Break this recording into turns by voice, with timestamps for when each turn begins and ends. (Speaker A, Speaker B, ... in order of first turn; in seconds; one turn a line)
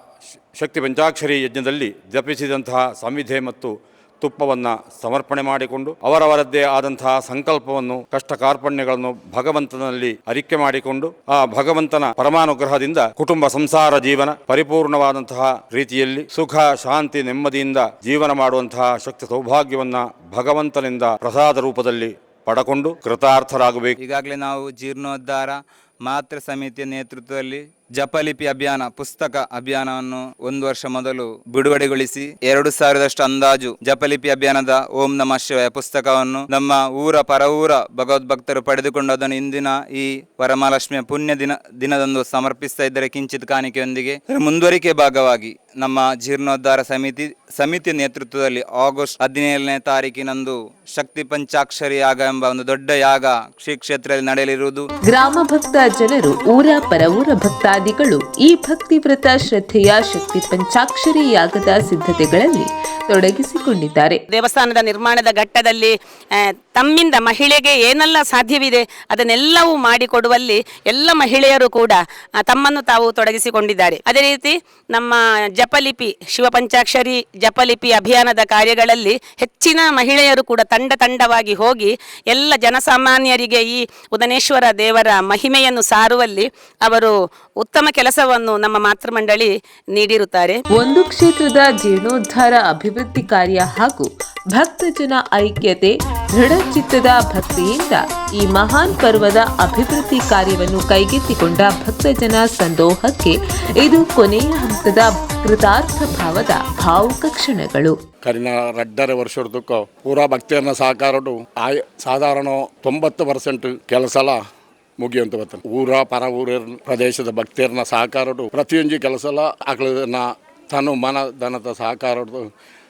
Speaker A: 0.5-24.0
Speaker B: 24.0-54.8
Speaker C: 55.1-64.2
Speaker D: 64.3-90.6
Speaker C: 90.8-108.0
Speaker E: 108.2-114.4
Speaker E: 115.0-122.5